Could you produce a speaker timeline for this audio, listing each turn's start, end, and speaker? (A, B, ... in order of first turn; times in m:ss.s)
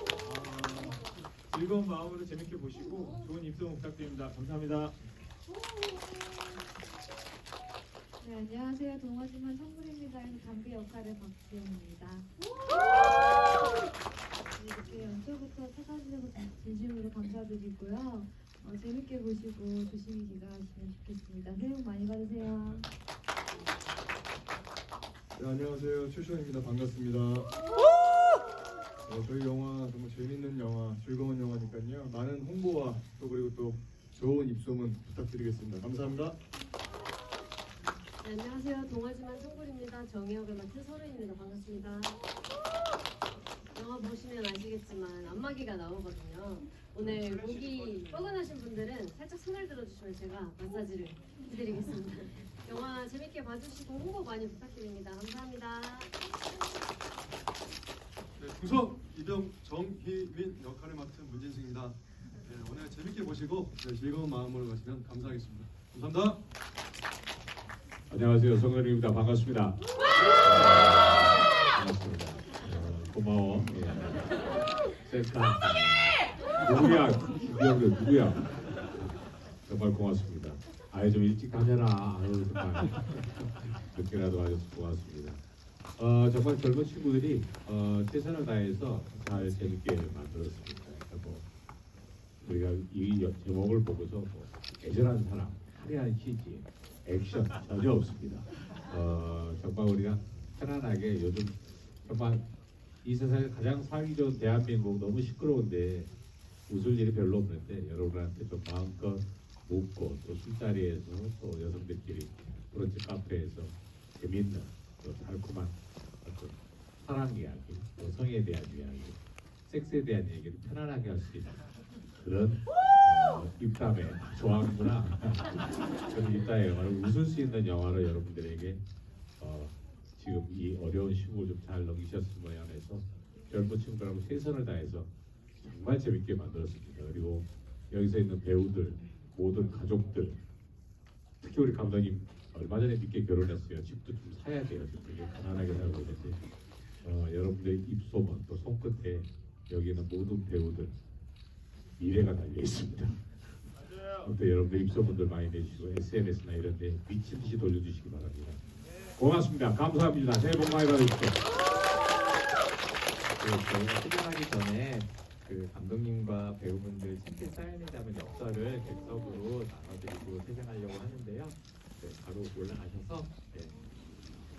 0:00.2-0:05.0 A
0:08.2-0:12.3 B
0:14.6-0:22.9 B
0:25.3-0:27.5 C
0:29.1-0:36.4 C
0:38.2-0:42.2 D
0:43.8-0:56.1 D
0:58.4-1:06.4 E
1:08.1-1:09.8 F
1:10.4-1:14.4 F
1:15.0-1:19.1 F
1:19.6-1:25.4 F
1:26.0-1:31.5 F
1:32.4-1:42.4 F
1:43.0-1:46.1 F
1:46.7-2:01.6 F
2:02.2-2:08.8 F
2:09.4-2:20.4 F
2:21.4-2:26.4 F
2:27.0-2:31.0 F
2:32.0-2:33.2 F
2:34.2-2:38.6 F
2:39.1-2:41.4 F
2:43.4-2:53.8 G